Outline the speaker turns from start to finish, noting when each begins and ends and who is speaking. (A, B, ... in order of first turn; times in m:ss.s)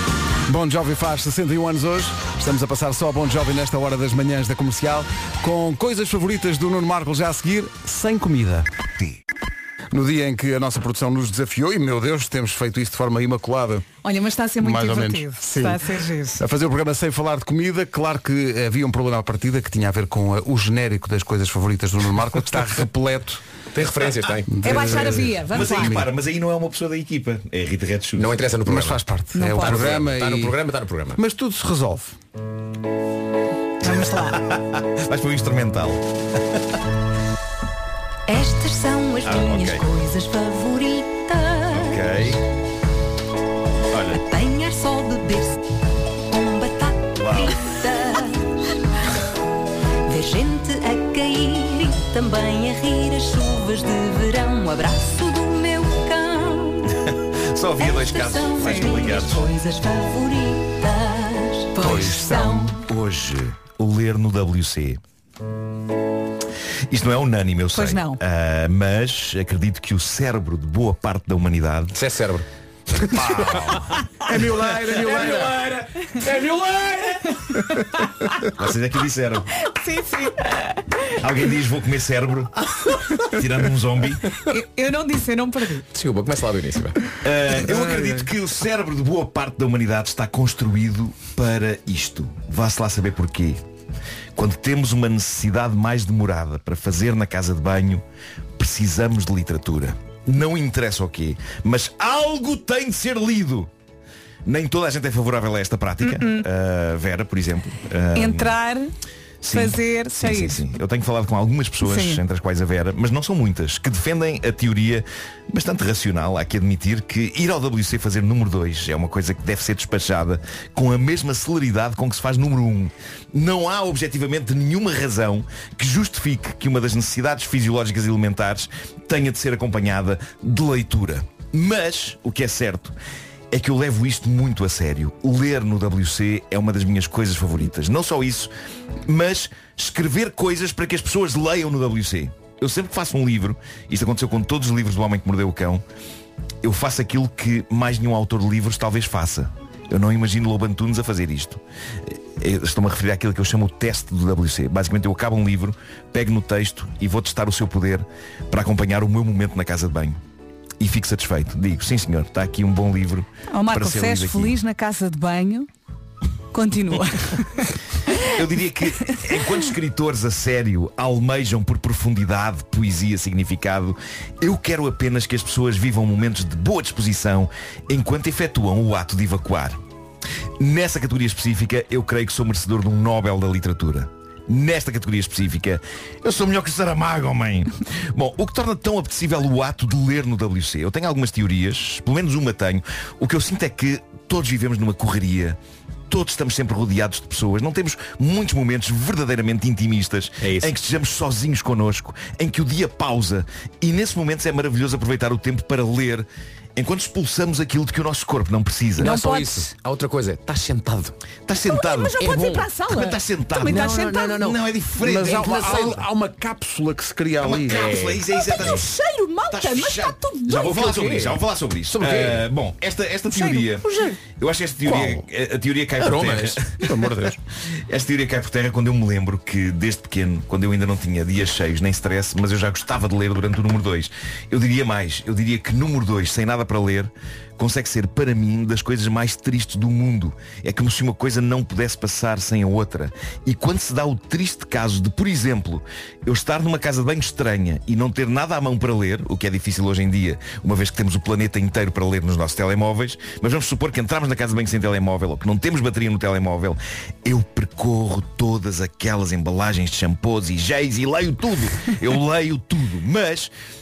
0:00.5-0:08.7 A
0:09.9-0:13.9 A
0:14.0-0:16.4 B
0:14.6-0:15.8 A
0:16.4-0:23.4 A
0:23.7-0:24.6 C
0:24.5-0:26.1 A
0:24.6-0:26.0 B
0:25.5-0:28.4 D
0:28.2-0:29.0 C
0:28.7-0:30.5 A
0:29.4-0:29.9 B
0:29.6-0:31.2 C
0:31.2-0:32.2 A
0:33.8-0:34.4 B
0:33.8-0:36.0 D
0:38.3-0:42.0 E
0:39.2-0:39.9 D
0:41.7-0:42.4 D
0:43.9-0:44.2 D
0:44.2-0:45.6 E
0:46.2-0:48.7 E
0:47.2-0:47.6 D
0:50.1-0:56.9 E
0:57.1-0:59.5 D
0:57.8-1:01.9 E
0:58.6-0:59.0 B
1:01.8-1:02.5 B
1:01.8-1:02.8 A
1:02.7-1:05.0 D
1:06.9-1:12.0 D
1:07.7-1:08.2 B
1:11.9-1:12.4 C
1:13.0-1:14.0 D
1:14.2-1:15.6 A
1:14.8-1:17.4 C
1:18.6-1:19.5 D
1:19.6-1:21.0 B
1:21.2-1:22.5 D
1:23.2-1:24.2 D
1:24.5-1:25.9 B
1:25.9-1:27.0 C
1:27.2-1:33.6 D
1:27.7-1:28.3 A
1:34.4-1:38.0 D
1:38.6-1:43.7 D
1:44.5-1:48.6 D
1:46.0-1:46.4 B
1:48.2-1:48.9 B
1:49.4-2:13.0 D
1:49.5-1:50.6 B
1:51.8-1:52.2 B
2:13.5-2:18.5 D
2:19.1-2:25.8 D
2:26.6-2:40.2 D
2:40.8-2:44.6 D
2:43.5-2:45.7 B
2:46.5-2:48.2 B
2:48.3-2:59.8 D
3:00.6-3:15.6 D
3:16.1-3:29.1 D
3:20.4-3:20.7 C
3:29.0-3:29.7 B
3:29.0-3:31.2 C
3:31.5-3:36.0 D
3:31.7-3:34.4 B
3:32.2-3:32.7 C
3:33.6-3:34.6 C
3:35.0-3:37.9 A
3:35.2-3:36.0 C
3:37.4-3:38.9 D
3:37.7-3:38.8 C
3:38.3-3:40.9 B
3:39.5-3:46.8 D
3:40.6-3:42.5 C
3:43.3-3:44.0 B
3:44.9-3:45.2 A
3:46.0-3:46.6 C
3:46.8-3:47.4 A
3:47.9-4:23.5 D